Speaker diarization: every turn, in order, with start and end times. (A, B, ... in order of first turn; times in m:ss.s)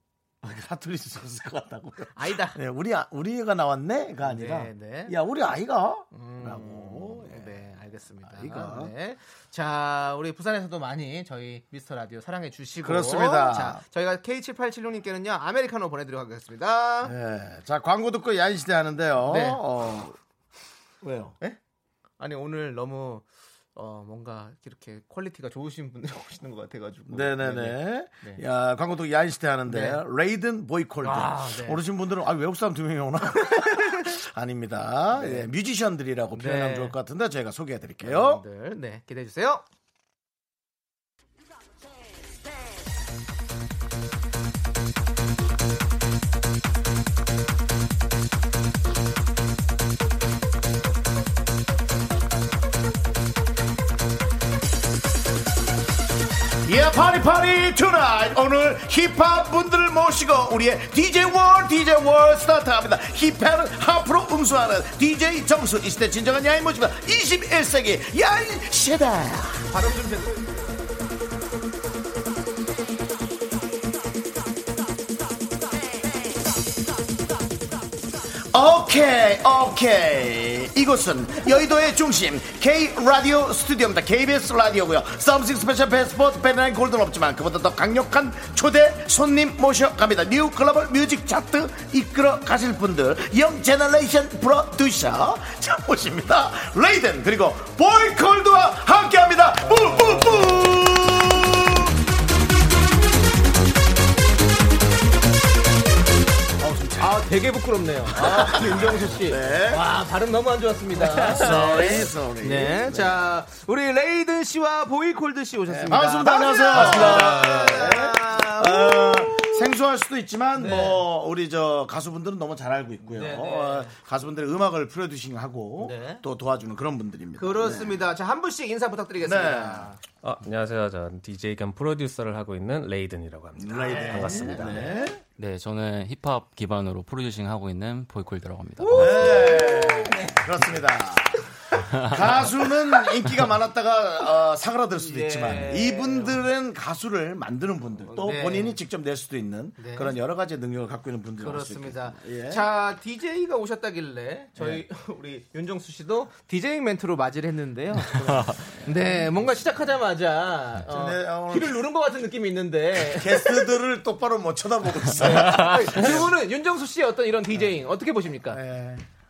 0:00.4-0:07.6 A
0:02.1-0:02.6 B
0:04.2-0:05.2 B
0:06.1-0:17.2 B
0:08.3-0:08.9 A
0:12.8-0:13.8 A
0:17.0-0:20.2 A
0:19.2-0:19.6 B
0:21.0-0:21.4 A
0:22.2-0:28.4 B
0:27.1-0:38.4 A
0:29.7-0:30.0 B
0:31.0-0:31.8 B
0:33.4-0:34.1 B
0:35.1-0:35.5 B
0:36.3-0:37.0 B
0:38.0-0:39.6 B
0:56.6-1:09.7 A
1:09.7-1:10.8 B
1:18.5-1:41.9 A
1:46.6-1:47.3 A
1:47.0-1:59.7 B
1:48.1-1:49.8 A
1:51.1-1:53.3 A
1:55.7-2:08.0 A
2:00.6-2:01.0 B
2:03.0-2:03.9 B
2:05.8-2:06.2 B
2:07.4-2:10.0 B
2:09.2-2:09.9 A
2:10.2-2:14.8 C
2:13.6-2:15.2 A
2:13.7-2:15.0 B
2:15.4-2:19.4 D
2:18.8-2:20.5 B
2:18.9-2:32.6 A
2:22.4-2:22.7 B
2:25.0-2:26.4 B
2:28.1-2:28.8 B
2:29.8-2:30.2 B
2:31.4-2:43.8 B
2:34.6-2:34.8 A
2:40.9-2:41.8 A
2:43.0-2:46.3 A
2:45.1-2:48.6 B
2:45.2-2:46.1 D
2:48.5-2:49.0 A